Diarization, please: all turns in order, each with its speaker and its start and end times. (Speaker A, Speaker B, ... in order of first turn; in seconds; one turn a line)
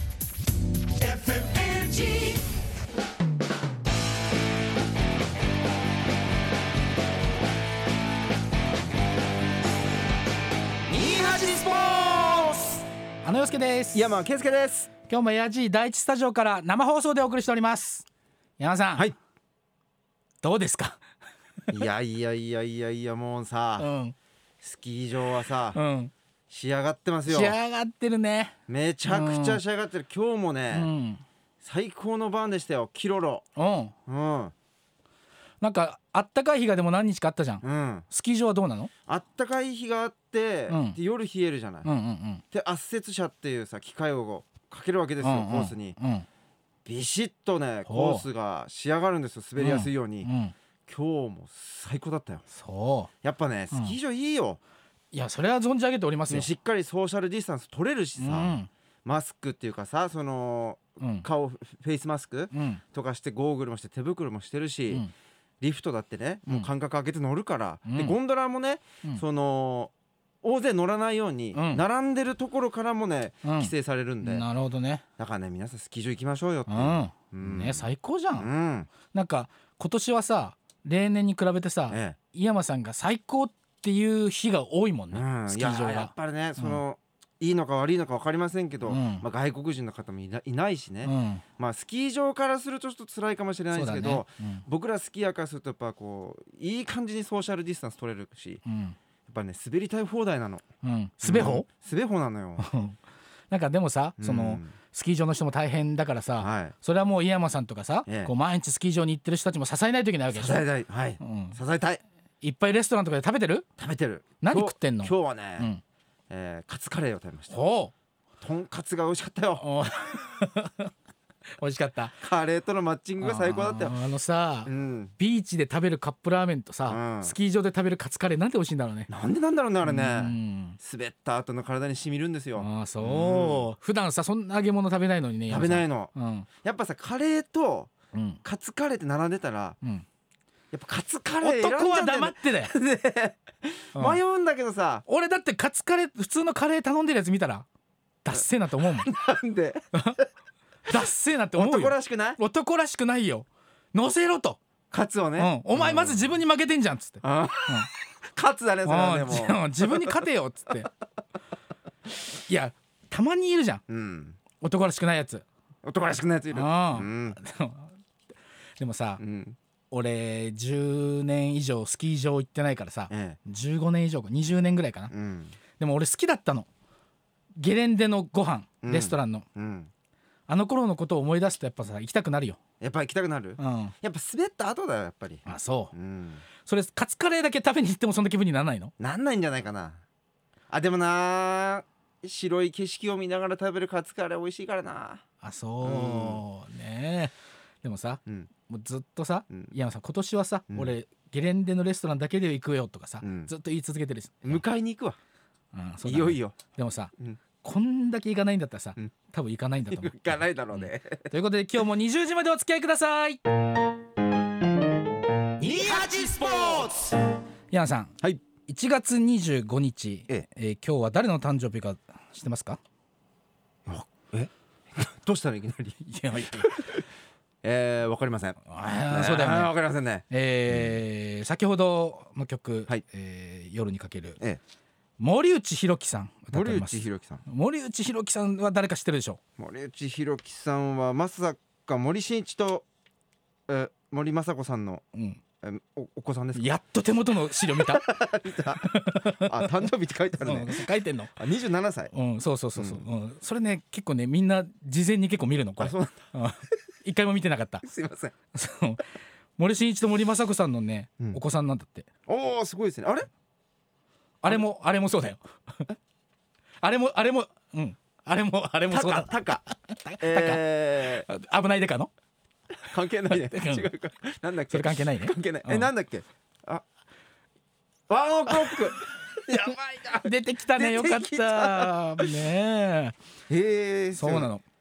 Speaker A: 1.1-2.4
Speaker A: 10.9-14.1
Speaker B: 13.9-14.9
Speaker A: 15.1-18.1
Speaker A: 18.6-19.1
Speaker A: 20.4-21.0
Speaker B: 21.7-23.9
Speaker A: 23.8-24.1
Speaker B: 24.6-25.8
Speaker A: 25.7-26.1
Speaker B: 26.5-27.6
Speaker A: 27.3-28.6
Speaker B: 28.7-30.9
Speaker A: 29.1-29.6
Speaker A: 30.7-31.2
Speaker B: 31.6-33.4
Speaker A: 33.6-33.9
Speaker B: 34.1-34.5
Speaker A: 35.6-38.9
Speaker B: 37.6-38.1
Speaker B: 39.1-41.9
Speaker A: 40.7-41.0
Speaker A: 41.8-42.4
Speaker B: 42.5-46.0
Speaker A: 45.2-46.3
Speaker B: 46.9-50.3
Speaker A: 47.9-48.3
Speaker A: 49.6-50.5
Speaker B: 50.9-52.4
Speaker A: 52.5-53.1
Speaker B: 53.2-54.6
Speaker A: 53.7-54.0
Speaker A: 55.1-56.5
Speaker B: 56.3-65.1
Speaker A: 58.2-58.7
Speaker A: 61.0-61.3
Speaker A: 62.5-62.8
Speaker B: 65.6-69.9
Speaker A: 67.9-68.2
Speaker B: 70.4-74.5
Speaker A: 71.5-71.8
Speaker A: 73.4-75.0
Speaker B: 75.2-78.9
Speaker A: 76.7-78.5
Speaker A: 79.1-86.8
Speaker B: 81.9-82.2
Speaker B: 85.1-98.6
Speaker A: 88.9-89.3
Speaker A: 91.0-91.4
Speaker A: 93.7-94.6
Speaker A: 98.7-99.0
Speaker B: 99.3-100.6
Speaker A: 100.8-101.7
Speaker B: 101.2-102.7
Speaker A: 102.6-103.0
Speaker A: 103.5-110.7
Speaker B: 104.2-104.8
Speaker B: 106.4-106.8
Speaker B: 108.1-108.3
Speaker B: 110.3-112.0
Speaker A: 111.2-111.6
Speaker A: 112.4-113.7
Speaker B: 113.8-115.7
Speaker A: 114.4-115.8
Speaker B: 116.3-117.6
Speaker A: 117.5-117.9
Speaker B: 118.4-119.7
Speaker A: 119.6-120.9
Speaker A: 121.6-122.2
Speaker B: 122.2-124.0
Speaker A: 123.2-129.1
Speaker B: 124.7-125.1
Speaker B: 126.9-127.4
Speaker B: 129.1-133.7
Speaker A: 129.8-130.8
Speaker A: 132.6-136.5
Speaker B: 135.5-136.1
Speaker B: 136.6-137.9
Speaker A: 138.1-138.4
Speaker B: 138.4-139.8
Speaker B: 140.7-145.1
Speaker A: 141.4-142.8
Speaker A: 143.9-144.2
Speaker A: 145.1-147.7
Speaker A: 148.2-149.1
Speaker B: 148.8-149.9
Speaker A: 149.9-150.2
Speaker A: 150.9-154.6
Speaker B: 151.6-152.4
Speaker B: 154.9-156.3
Speaker A: 155.4-157.9
Speaker B: 157.2-160.2
Speaker A: 158.8-160.9
Speaker A: 162.4-163.8
Speaker B: 163.9-164.4
Speaker A: 164.6-165.4
Speaker B: 165.8-167.4
Speaker A: 166.5-167.9
Speaker A: 168.8-169.2
Speaker B: 169.2-169.6
Speaker A: 169.9-175.1
Speaker B: 173.1-173.4
Speaker B: 175.1-175.6
Speaker A: 175.8-176.7
Speaker A: 177.6-179.5
Speaker B: 178.8-179.9
Speaker A: 180.5-182.6
Speaker B: 182.8-186.4
Speaker A: 183.6-183.9
Speaker A: 185.5-185.9
Speaker A: 186.6-188.9
Speaker B: 189.0-190.0
Speaker B: 190.7-195.2
Speaker A: 195.4-204.6
Speaker B: 195.8-196.4
Speaker B: 203.2-203.5
Speaker B: 204.4-205.2
Speaker A: 205.7-213.4
Speaker B: 206.1-206.6
Speaker B: 209.8-211.3
Speaker B: 215.6-217.2
Speaker A: 215.8-216.8
Speaker A: 217.7-222.8
Speaker B: 223.9-227.0
Speaker A: 226.1-227.0
Speaker B: 227.6-230.9
Speaker A: 228.7-229.7
Speaker A: 230.3-234.4
Speaker A: 235.2-239.4
Speaker B: 236.5-237.4
Speaker B: 239.6-242.8
Speaker B: 243.7-245.0
Speaker A: 245.1-245.4
Speaker B: 245.6-246.7
Speaker A: 246.5-248.1
Speaker B: 247.6-252.1
Speaker A: 248.8-249.8
Speaker A: 250.4-251.3
Speaker A: 252.1-257.9
Speaker B: 252.8-253.1
Speaker B: 255.8-256.3
Speaker B: 257.8-258.3
Speaker A: 258.5-259.1
Speaker A: 259.6-262.1
Speaker B: 262.3-263.3
Speaker A: 264.4-265.9
Speaker A: 266.8-272.1
Speaker B: 268.9-269.6
Speaker B: 270.2-271.3
Speaker B: 272.9-276.8
Speaker A: 273.3-273.9
Speaker A: 274.7-275.9
Speaker B: 278.1-282.4
Speaker A: 279.5-283.1
Speaker B: 283.5-284.5
Speaker A: 284.1-284.6